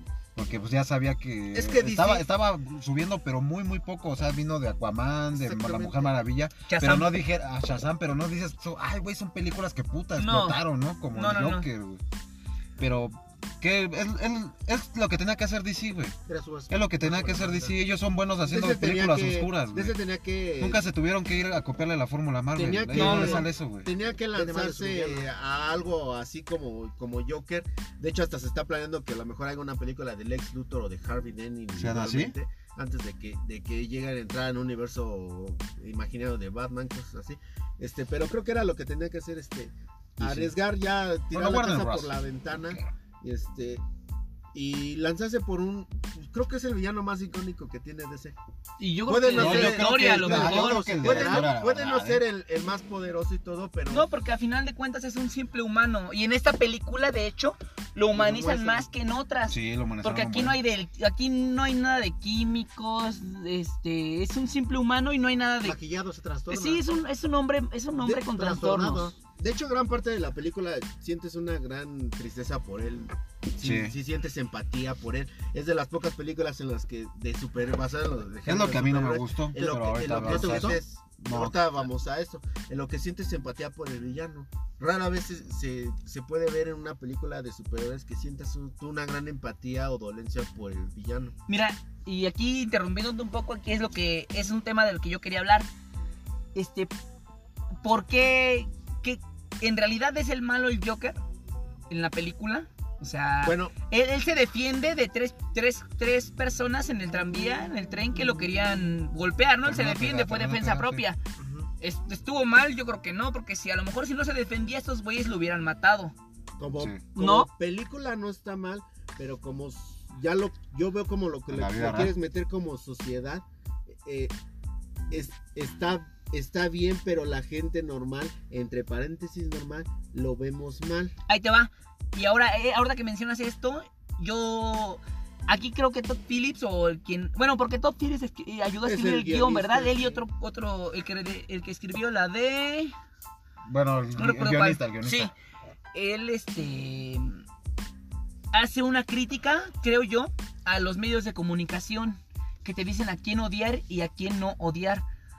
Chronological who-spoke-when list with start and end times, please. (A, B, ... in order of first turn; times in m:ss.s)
0:00.3-0:12.0 A
0:01.5-0:02.3 B
0:05.3-0:06.1 B
0:06.7-0:07.1 C
0:10.2-0:10.6 C
0:11.1-0:11.7 C
0:12.8-0:16.1 A
0:16.3-0:17.8 D
0:16.7-0:20.0 A
0:18.4-0:20.8 B
0:20.6-0:23.9 A
0:22.6-0:43.8 B
0:22.6-0:23.4 C
0:24.3-0:25.3 D
0:31.8-0:32.3 A
0:40.2-0:40.5 A
0:41.3-0:42.1 A
0:44.5-0:48.3 B
0:48.8-0:51.5 C
0:49.1-0:54.1 B
0:49.3-0:52.2 A
0:53.9-1:05.8 C
0:58.1-0:58.9 B
0:59.5-1:00.6 A
1:05.6-1:06.8 D
1:06.5-1:09.1 C
1:08.0-1:09.2 D
1:09.2-1:31.3 B
1:13.6-1:13.9 A
1:18.4-1:21.8 A
1:20.2-1:20.8 D
1:31.5-1:35.7 C
1:36.5-1:36.9 C
1:37.8-1:41.2 C
1:41.9-1:51.2 C
1:43.4-1:43.7 B
1:49.6-1:51.1 A
1:51.8-1:56.1 C
1:56.6-2:04.3 B
1:57.1-1:57.5 C
2:01.5-2:02.2 A
2:05.1-2:11.1 B
2:11.3-2:22.9 C
2:18.8-2:20.2 B
2:23.6-2:25.3 A
2:24.2-2:25.3 C
2:25.9-2:27.4 C
2:28.5-2:35.0 C